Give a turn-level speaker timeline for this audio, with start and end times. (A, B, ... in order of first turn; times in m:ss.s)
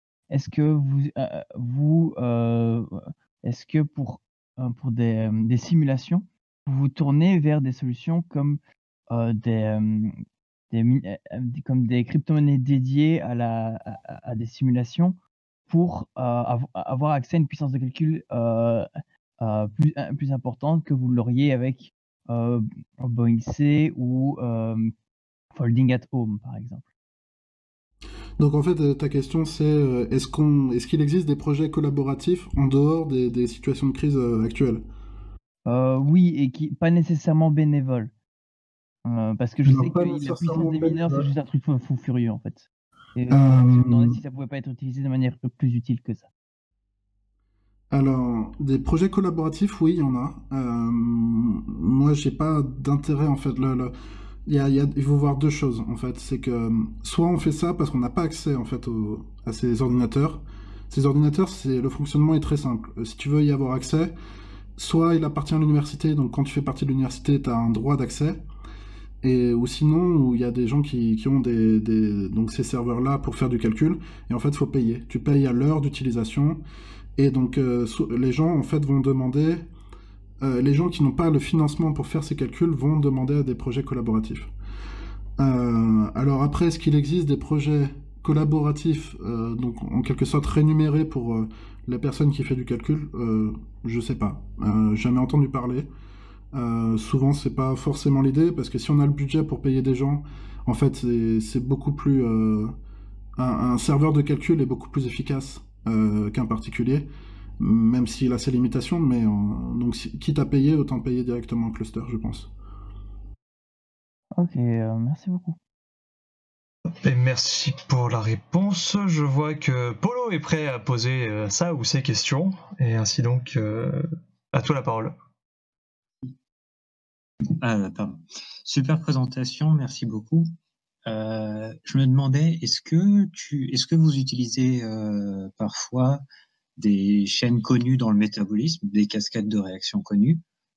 0:00.3-0:10.1 A
0:10.7-0:15.2 A
0:15.7-0:18.9 A
0:19.4-0:24.9 A
0:25.5-0:26.8 A
0:28.4-0:34.8 B
0:35.6-0:38.1 A
0:39.0-0:46.3 A
0:39.6-0:41.3 B
0:43.3-0:44.2 B
0:47.9-0:53.9 B
0:54.4-1:04.1 B
1:04.8-1:08.4 B
1:09.2-1:16.6 B
1:17.2-1:19.6 B
1:20.4-1:24.5 B
1:25.4-1:35.9 B
1:36.5-1:42.7 B
1:43.4-1:47.1 B
1:47.6-1:52.5 B
1:54.4-1:55.6 A
1:57.0-2:05.1 C
2:07.5-2:10.5 D
2:11.0-2:16.2 D
2:16.8-2:20.4 D